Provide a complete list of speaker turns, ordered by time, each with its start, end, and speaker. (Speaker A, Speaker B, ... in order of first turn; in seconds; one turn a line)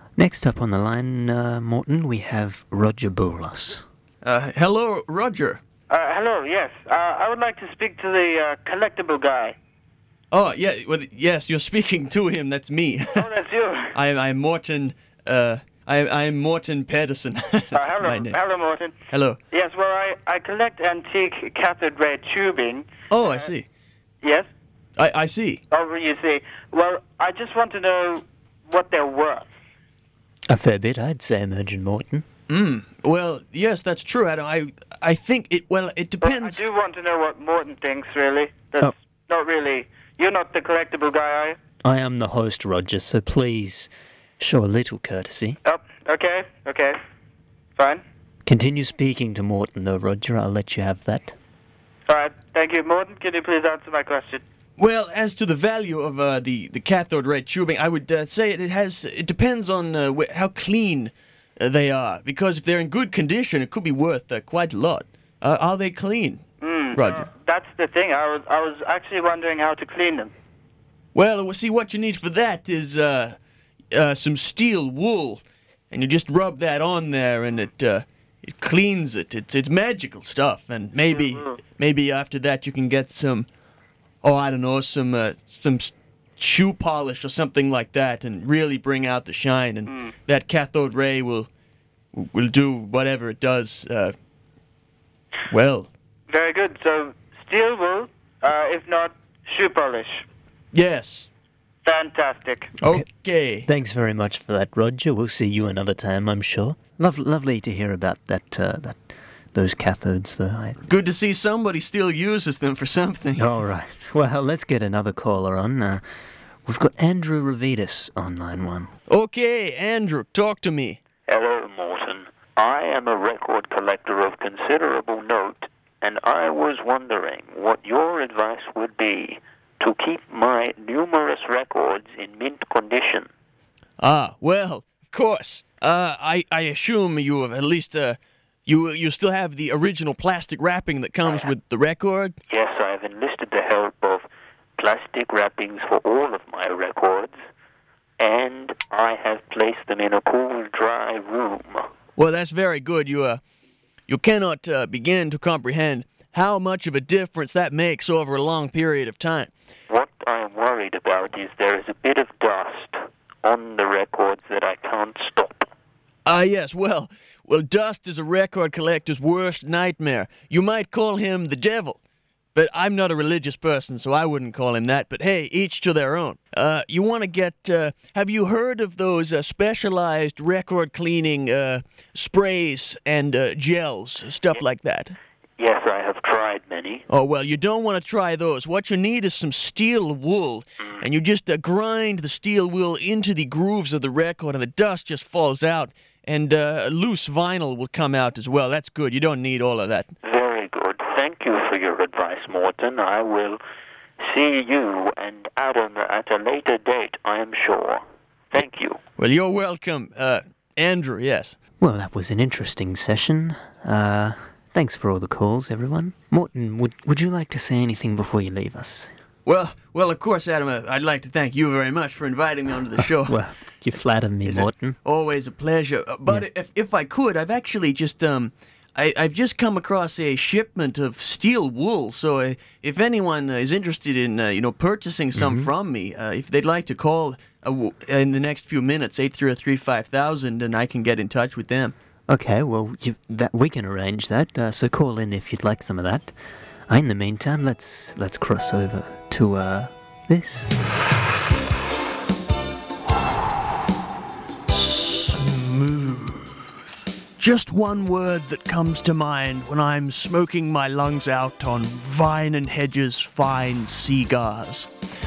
Speaker A: 0.2-3.8
Speaker B: 4.2-5.6
Speaker C: 5.9-9.6
Speaker B: 10.3-13.3
Speaker C: 13.1-13.9
Speaker B: 13.9-18.4
Speaker C: 17.7-18.9
Speaker B: 19.1-19.4
Speaker C: 19.5-23.5
Speaker B: 23.1-23.6
Speaker B: 25.0-25.6
Speaker C: 25.7-29.5
Speaker A: 30.5-32.2
Speaker B: 32.5-36.6
Speaker C: 36.2-41.6
Speaker A: 41.8-45.6
Speaker C: 45.6-47.0
Speaker C: 47.8-48.0
Speaker A: 48.5-51.4
Speaker C: 52.1-54.4
Speaker B: 54.8-66.4
Speaker C: 66.6-70.3
Speaker B: 66.9-67.3
Speaker B: 71.1-73.3
Speaker B: 73.9-83.5
Speaker C: 81.1-81.5
Speaker B: 84.2-91.5
Speaker C: 89.9-90.1
Speaker B: 92.1-94.1
Speaker B: 95.5-95.9
Speaker C: 96.3-100.2
Speaker B: 100.7-101.3
Speaker C: 101.8-102.7
Speaker B: 102.8-103.7
Speaker A: 103.7-109.0
Speaker A: 109.5-110.8
Speaker B: 110.8-113.5
Speaker A: 113.4-116.0
Speaker A: 116.7-118.9
Speaker B: 119.1-121.0
Speaker D: 121.3-133.3
Speaker B: 134.0-142.3
Speaker D: 141.2-141.5
Speaker D: 142.5-147.4
Speaker D: 148.2-151.9
Speaker B: 152.2-153.4
Speaker B: 154.1-159.5
Speaker D: 159.9-165.7
Speaker B: 166.2-172.0
Speaker B: 172.5-185.2
Speaker D: 185.6-187.0
Speaker B: 187.1-200.1
Speaker D: 200.2-203.6
Speaker D: 204.2-209.0
Speaker B: 209.2-211.6
Speaker A: 211.8-219.1
Speaker B: 219.4-223.4
Speaker A: 223.2-225.0
Speaker B: 224.4-241.9
Speaker A: 235.3-235.7
Speaker A: 242.3-246.3
Speaker A: 246.9-250.7
Speaker B: 254.7-256.7
Speaker B: 257.4-264.9